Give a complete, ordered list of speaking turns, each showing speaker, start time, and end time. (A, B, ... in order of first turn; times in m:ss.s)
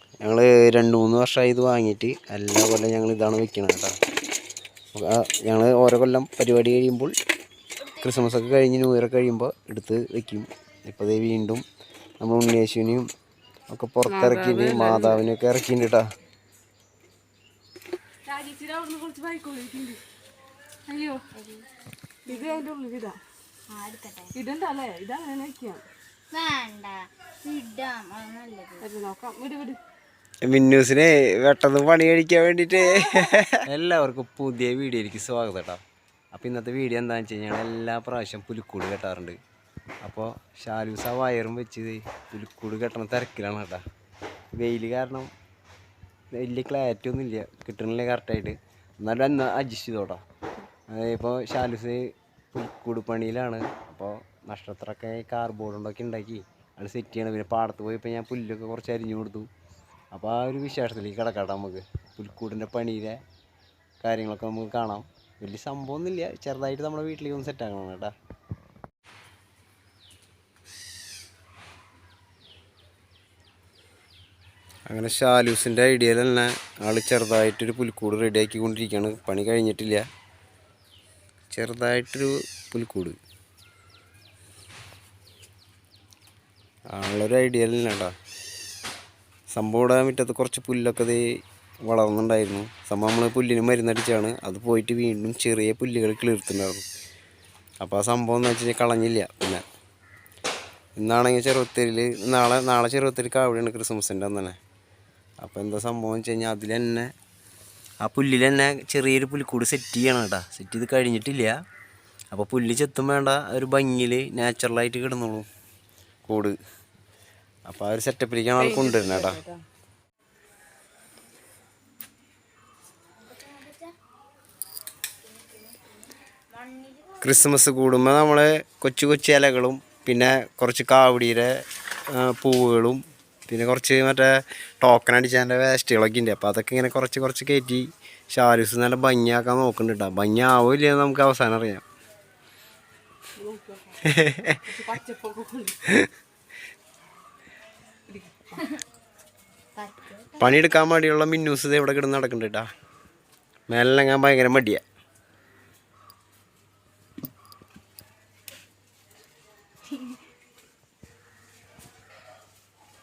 0:00.2-0:03.9 A
0:04.9-0:07.1 A
0:07.8-0:08.3 B
0:08.0-0:11.6 A
0:12.2-0:13.0 A
0:13.7-0:16.0 A
0:14.1-0:15.2 C
0:18.3-0:20.0 C
0:20.9-0:21.2 C
0:21.3-0:21.7 B
0:22.2-0:23.2 C
0:22.3-0:22.6 B
0:23.7-0:24.3 B
0:24.3-0:25.8 C
0:26.3-0:28.9 B
0:28.8-0:29.8 C
0:30.4-0:35.8 A
0:36.3-0:39.4 A
0:40.0-0:43.8 A
0:44.5-0:45.3 A
0:46.4-0:50.2 A
0:50.9-0:59.5 A
1:00.1-1:03.2 A
1:04.0-1:08.1 A
1:14.9-1:20.0 A
1:21.5-1:23.2 A
1:26.9-1:28.1 A
1:29.5-1:31.2 A
1:31.8-1:36.8 A
1:37.8-1:39.6 A
1:41.0-1:44.6 A
1:45.4-1:47.1 A
1:48.0-1:51.5 A
1:52.3-1:55.5 A
1:56.3-1:56.6 A
1:57.7-1:59.4 A
1:58.6-1:59.6 C
2:03.2-2:03.9 B
2:05.2-2:07.6 B
2:07.2-2:11.5 A
2:12.1-2:21.8 A
2:23.4-2:24.0 C
2:24.0-2:24.6 A
2:24.6-2:25.8 C
2:28.1-2:28.7 C
2:29.8-2:30.6 B
2:30.4-2:32.7 A
2:33.7-2:34.8 A
2:39.9-2:40.2 B